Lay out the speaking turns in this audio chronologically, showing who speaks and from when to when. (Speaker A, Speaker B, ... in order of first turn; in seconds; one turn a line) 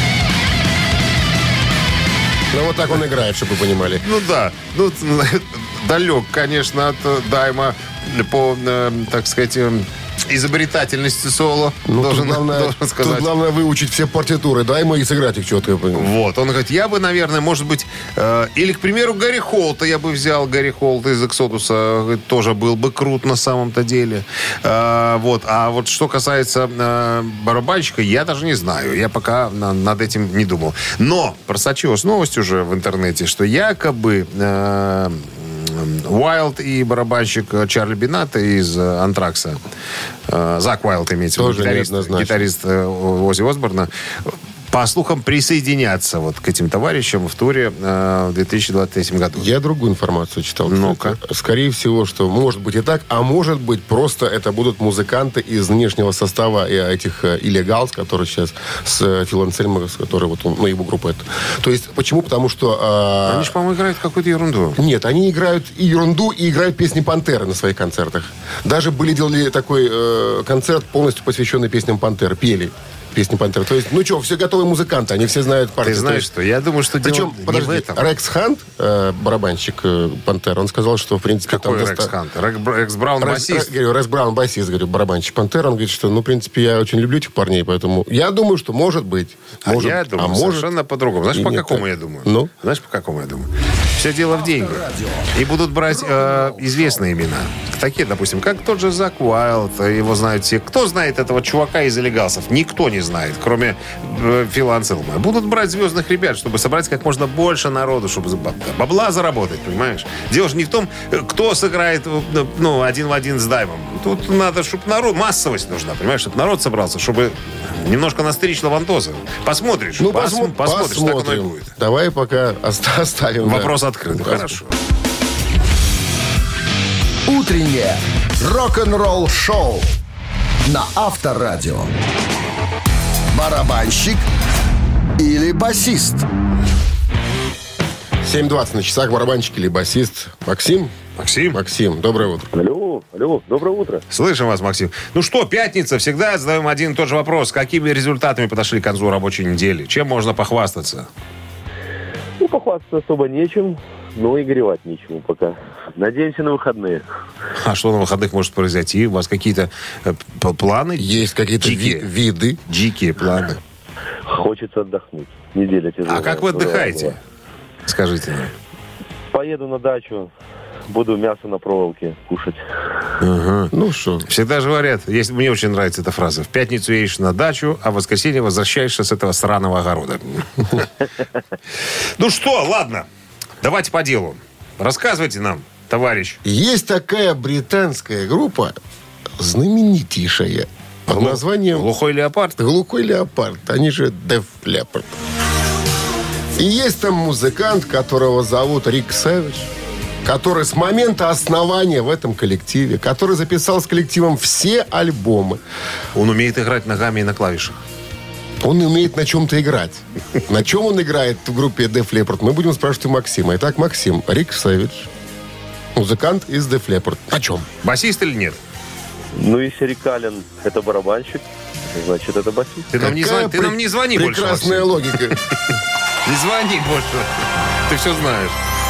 Speaker A: 2.5-4.0
Speaker B: 4.0-13.3
Speaker A: 11.9-16.1
Speaker B: 15.9-39.6
Speaker B: 40.3-49.5
Speaker A: 41.4-42.4
Speaker A: 49.4-63.5
Speaker B: 50.7-51.2
Speaker B: 63.2-64.8
Speaker A: 64.8-76.3
Speaker B: 75.8-78.0
Speaker A: 77.0-82.1
Speaker B: 81.5-83.7
Speaker A: 83.2-90.7
Speaker B: 89.6-121.7
Speaker A: 91.3-92.5
Speaker C: 94.3-95.3
Speaker C: 95.9-97.0
Speaker A: 120.0-124.6
Speaker B: 123.4-124.8
Speaker C: 127.3-129.9
Speaker C: 130.6-131.9
Speaker C: 133.3-134.2
Speaker C: 135.2-136.3
Speaker A: 138.2-140.9
Speaker B: 141.2-141.6
Speaker A: 141.5-142.5
Speaker D: 142.5-144.0
Speaker B: 144.1-151.1
Speaker D: 152.4-157.1
Speaker B: 157.6-162.1
Speaker A: 161.0-162.6
Speaker B: 162.7-163.6
Speaker D: 164.3-167.1
Speaker B: 166.1-167.2
Speaker B: 167.9-168.5
Speaker D: 169.3-170.3
Speaker D: 170.9-172.6
Speaker B: 173.2-173.7
Speaker A: 173.7-174.3
Speaker B: 174.2-180.9
Speaker B: 182.2-183.1
Speaker B: 183.6-186.4
Speaker A: 186.4-188.7
Speaker A: 189.4-191.9
Speaker B: 191.1-192.6
Speaker A: 192.6-195.1
Speaker A: 196.6-199.7
Speaker A: 200.2-205.6
Speaker B: 206.1-207.8
Speaker A: 208.6-215.1
Speaker A: 215.9-217.7
Speaker B: 217.8-218.6
Speaker D: 219.3-222.9
Speaker B: 222.9-225.3
Speaker A: 223.0-225.4
Speaker B: 226.2-228.6